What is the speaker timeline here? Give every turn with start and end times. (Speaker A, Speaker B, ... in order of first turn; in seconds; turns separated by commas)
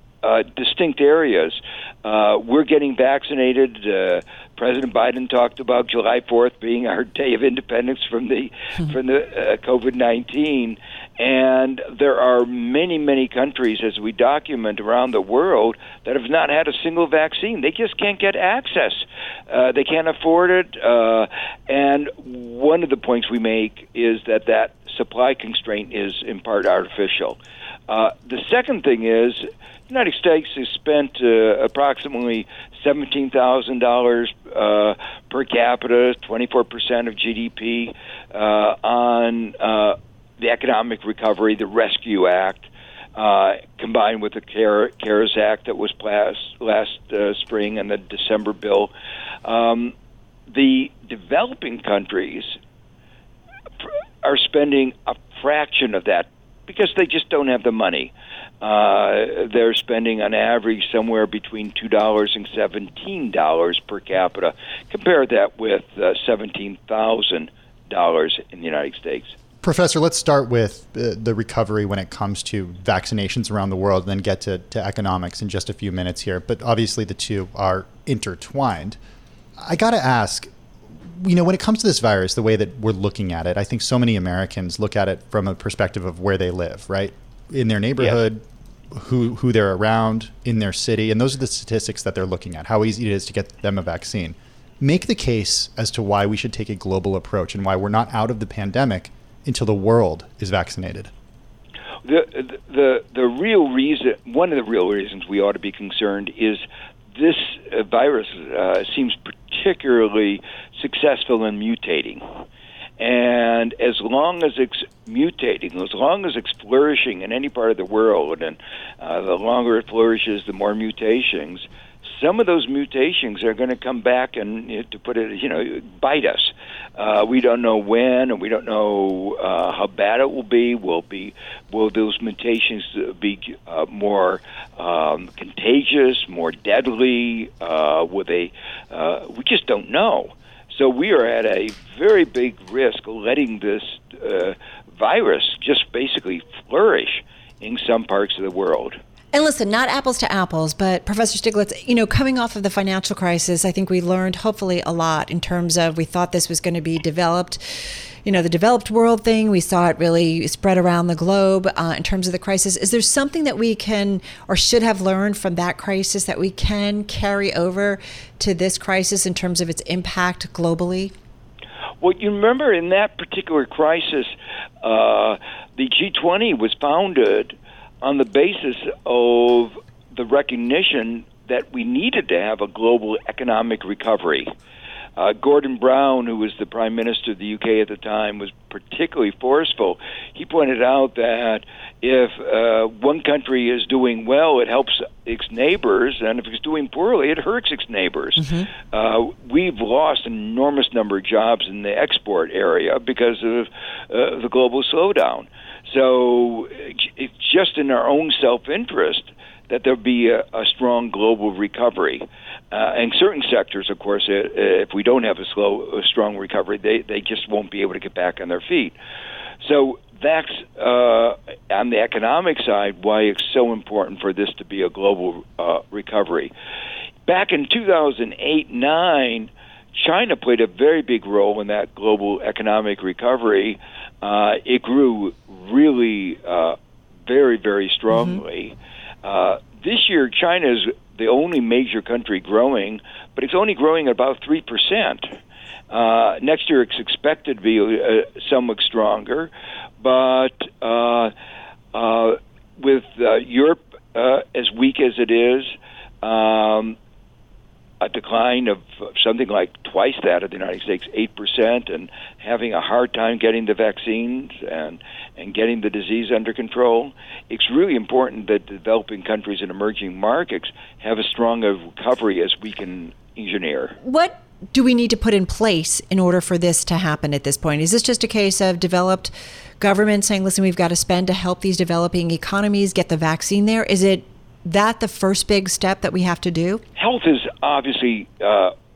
Speaker A: 0.2-48.9, Speaker A: 49.4-49.9, Speaker A: 50.5-52.6, Speaker A: 54.2-69.3, Speaker B: 69.6-79.0, Speaker B: 79.6-80.5, Speaker B: 81.1-101.1, Speaker A: 102.0-106.6, Speaker A: 107.1-112.2, Speaker A: 113.0-149.0, Speaker C: 149.3-171.1, Speaker A: 172.0-184.5, Speaker A: 185.2-218.9, Speaker C: 198.4-198.7, Speaker A: 219.6-226.5, Speaker A: 227.3-245.3, Speaker C: 238.1-238.4, Speaker A: 245.9-251.3, Speaker A: 251.9-256.9, Speaker A: 258.0-274.0, Speaker C: 274.0-286.8, Speaker A: 286.9-288.7